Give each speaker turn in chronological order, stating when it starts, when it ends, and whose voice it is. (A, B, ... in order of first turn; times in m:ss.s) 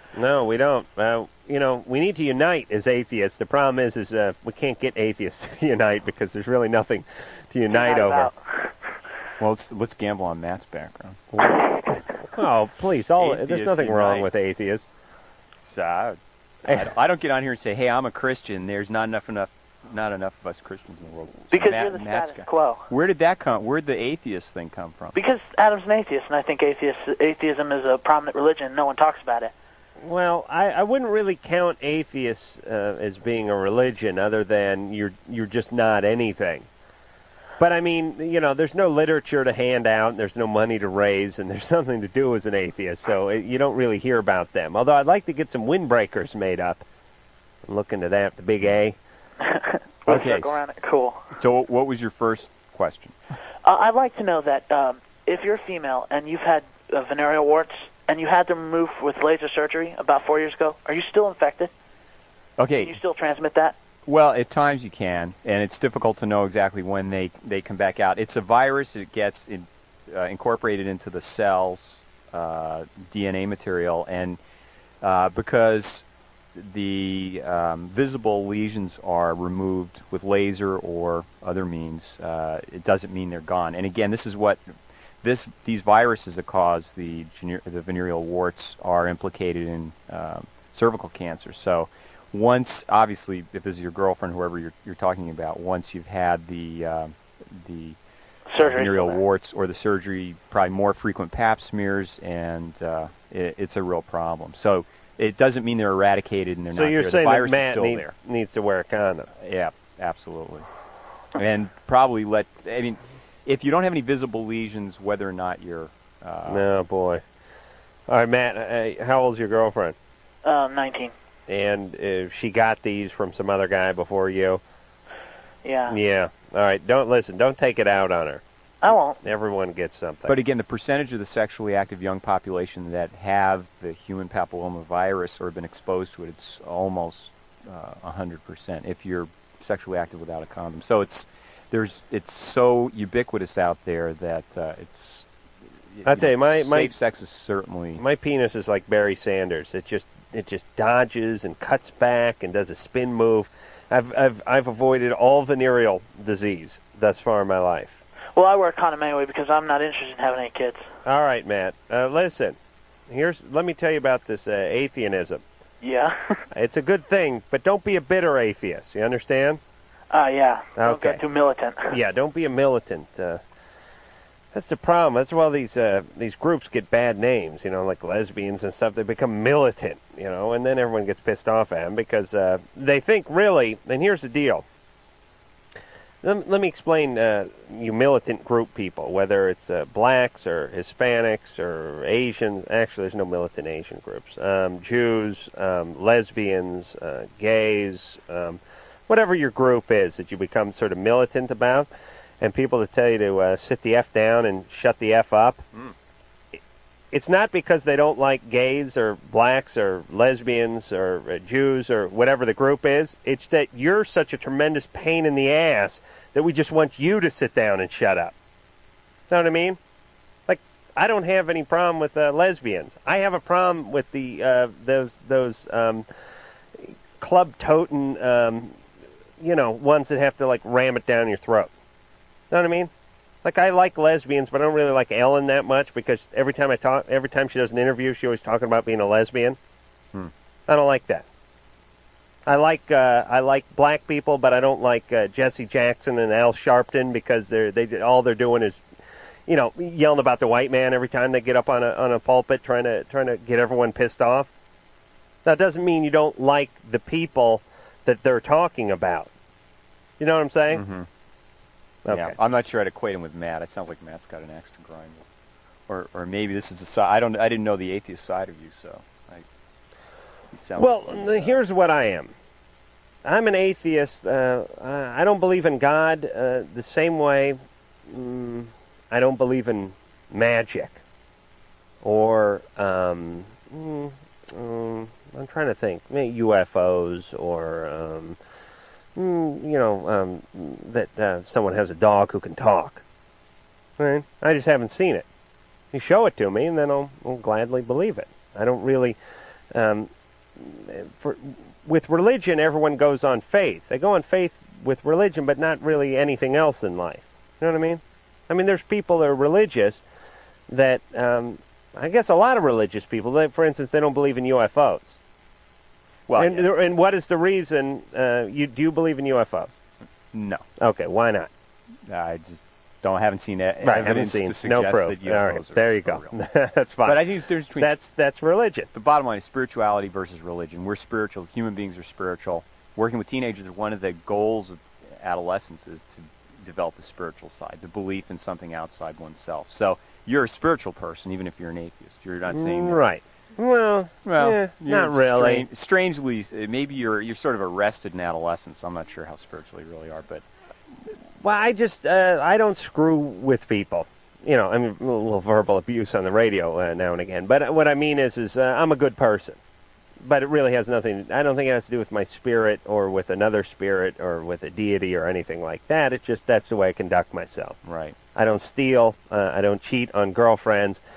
0:00.2-0:08.3 A
0:07.7-0:08.7 B
0:09.4-0:11.3 C
0:11.3-0:11.6 A
0:12.2-0:14.9 A
0:13.2-0:14.3 C
0:15.6-0:25.2 C
0:21.5-0:22.9 B
0:25.2-0:29.5 B
0:30.0-0:36.7 A
0:37.6-0:46.8 A
0:47.7-0:49.0 A
0:49.4-0:51.3 B
0:50.1-0:50.6 C
0:51.3-0:53.2 C
0:53.6-1:01.7 B
1:02.6-1:03.0 C
1:02.8-1:03.8 B
1:04.1-1:14.4 C
1:15.0-1:24.7 C
1:25.2-1:38.0 C
1:38.5-1:39.2 B
1:38.6-1:48.1 C
1:46.7-1:49.3 A
1:49.4-1:50.7 C
1:51.4-1:56.7 C
1:56.5-1:57.2 A
1:58.1-2:00.0 A
2:00.4-2:01.1 B
2:01.5-2:04.6 A
2:05.6-2:06.0 B
2:05.9-2:08.4 A
2:08.8-2:09.2 B
2:09.2-2:10.4 A
2:10.3-2:25.3 C
2:25.9-2:28.0 C
2:26.1-2:27.0 A
2:28.0-2:38.0 A
2:38.4-2:40.9 B
2:41.0-2:42.6 A
2:43.1-2:45.4 A
2:45.8-2:46.4 B
2:46.5-2:49.6 A
2:50.1-2:52.0 B
2:50.8-2:51.2 A
2:51.9-2:53.4 A
2:54.5-3:04.6 A
3:06.2-3:21.9 A
3:22.4-3:25.6 A
3:27.1-3:38.3 A
3:39.3-3:39.8 A
3:40.5-3:46.1 A
3:46.8-3:48.8 A
3:49.4-3:51.7 A
3:52.5-3:52.9 A
3:53.4-3:59.6 A
4:00.7-4:01.3 A
4:02.5-4:08.8 A
4:09.5-4:14.5 A
4:15.4-4:19.3 A
4:20.2-4:20.8 A
4:20.7-4:21.1 C
4:22.0-4:22.4 A
4:22.1-4:25.2 C
4:25.9-4:29.5 C
4:30.5-4:31.6 C
4:30.8-4:32.3 A
4:33.2-4:41.0 A
4:42.0-4:48.4 A
4:49.2-4:53.0 A
4:54.0-4:55.3 A
4:55.9-4:59.2 A
4:59.7-5:10.0 A
5:10.7-5:15.2 A
5:16.3-5:16.7 C
5:16.4-5:19.7 A
5:20.3-5:20.6 C
5:20.8-5:21.5 A
5:22.1-5:26.3 C
5:23.8-5:27.2 A
5:27.0-5:28.0 C
5:27.8-5:28.9 A
5:28.9-5:43.0 C
5:42.5-5:45.7 A
5:44.2-5:50.5 C
5:51.4-5:59.6 A
6:00.2-6:07.8 A
6:07.8-6:08.2 C
6:08.4-6:11.0 A